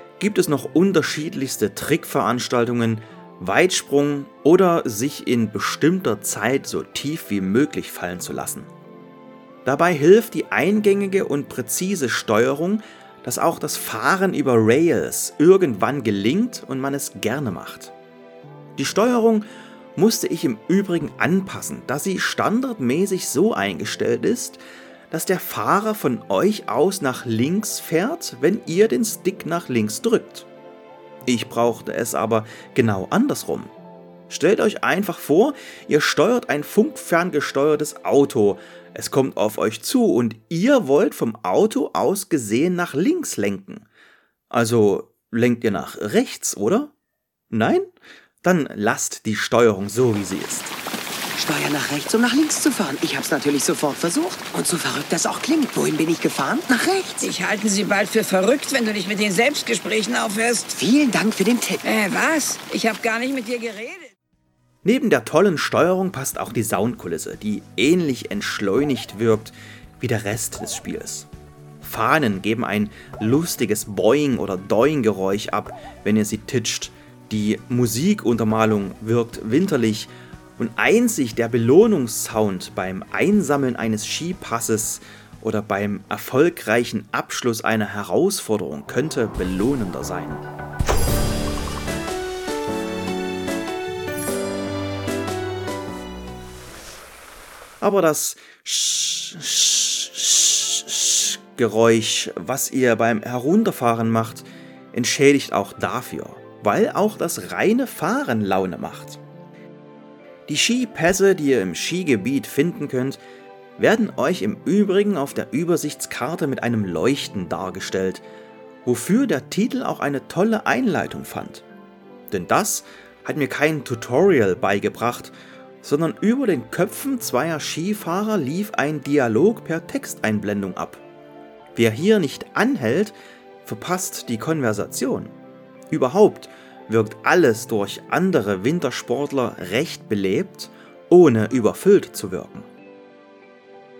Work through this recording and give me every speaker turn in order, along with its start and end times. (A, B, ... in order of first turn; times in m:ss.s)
0:00.2-0:08.7 A
0:09.6-0:17.9 A
0:18.8-0:24.6 A
0:25.1-0:30.5 A
0:31.3-0:33.7 A
0:34.3-0:43.9 A
0:44.5-0:46.9 A
0:47.5-0:47.9 A
0:48.4-0:50.7 A
0:51.4-0:57.2 B
0:57.2-1:00.8 C
1:00.7-1:01.8 B
1:01.8-1:04.1 C
1:04.8-1:11.3 A
1:11.8-1:30.4 A
1:37.8-1:49.2 A
1:50.5-1:53.2 A
1:53.8-1:58.2 A
1:58.8-2:01.6 A
2:02.3-2:11.0 A
2:11.8-2:13.1 A
2:13.6-2:15.3 A
2:15.9-2:22.7 A